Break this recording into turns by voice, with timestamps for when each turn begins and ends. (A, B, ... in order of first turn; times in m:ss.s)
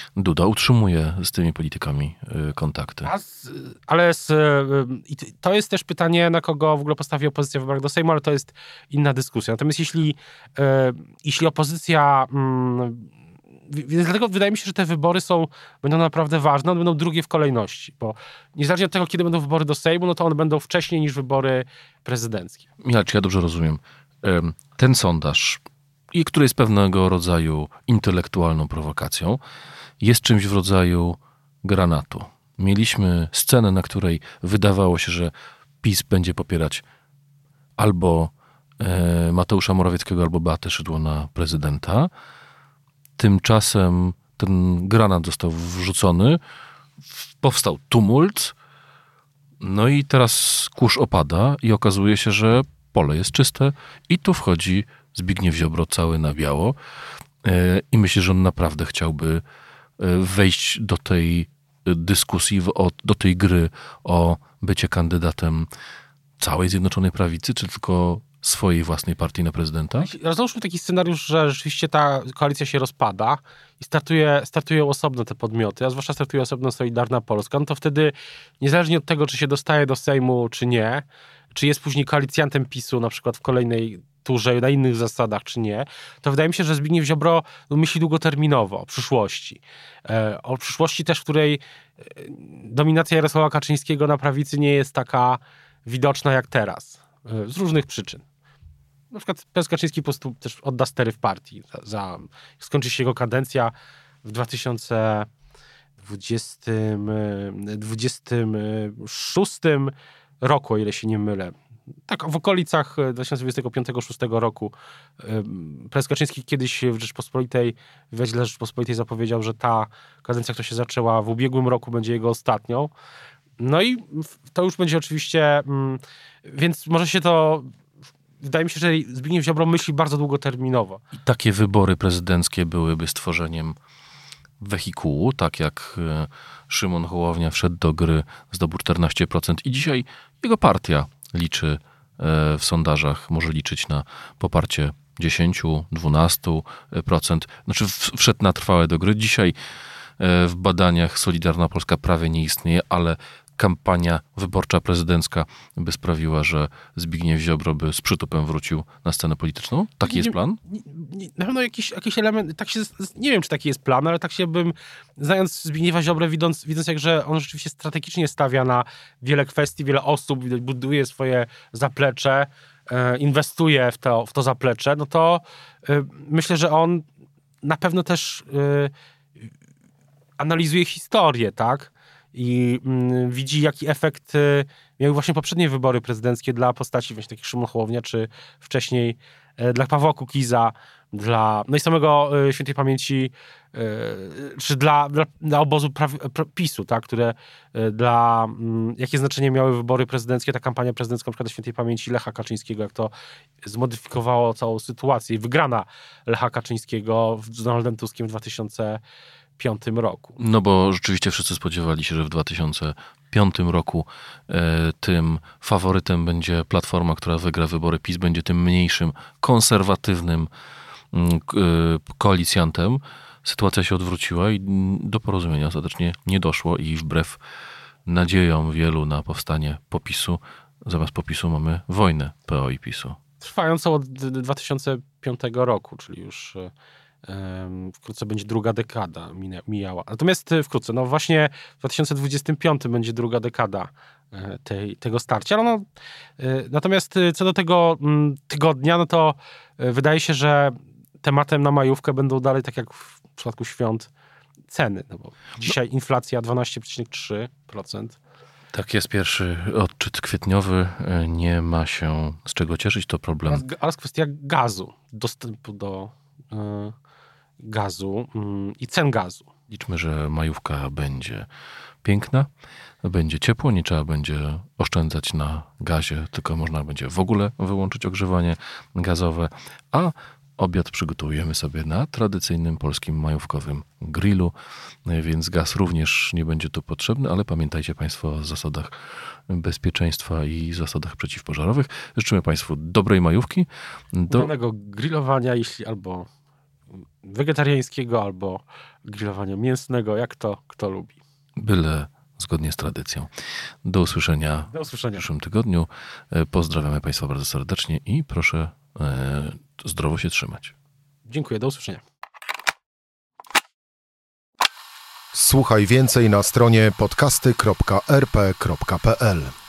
0:00.2-0:03.1 A
0:03.0-0:13.1 B
0:13.7-0:22.6 B
0:22.8-0:29.4 A
0:30.0-0:36.8 A
0:37.8-0:42.1 A
0:43.2-0:46.4 A
0:47.1-0:48.5 A
0:49.6-0:56.8 A
0:57.4-0:59.4 A
1:00.0-1:05.7 A
1:06.4-1:10.1 A
1:10.0-1:38.2 B
1:39.1-1:45.3 B
1:46.0-1:51.6 B
1:52.1-2:02.9 B
2:03.6-2:07.7 B
2:08.4-2:11.0 B
2:11.1-2:13.8 A
2:14.6-2:29.5 A
2:30.2-2:40.6 A
2:40.0-2:57.0 B
2:57.6-2:58.9 B
3:00.4-3:29.0 B
3:29.6-3:30.4 B
3:30.4-3:40.5 A
3:41.1-3:47.4 A
3:48.0-3:53.2 A
3:53.4-3:56.7 B
3:57.2-4:05.8 B
4:06.4-4:14.1 B
4:14.7-4:18.2 B
4:18.7-4:23.6 A
4:23.5-4:26.9 B
4:27.6-4:29.5 B
4:29.7-4:31.5 A
4:32.0-4:32.5 A
4:33.0-4:44.5 A
4:45.0-4:48.9 A
4:49.5-4:54.5 A
4:54.3-4:56.3 B
4:57.2-5:01.2 B
5:01.6-5:03.3 A
5:03.8-5:10.7 A
5:04.7-5:05.2 B
5:11.3-5:12.0 B
5:15.3-5:19.5 C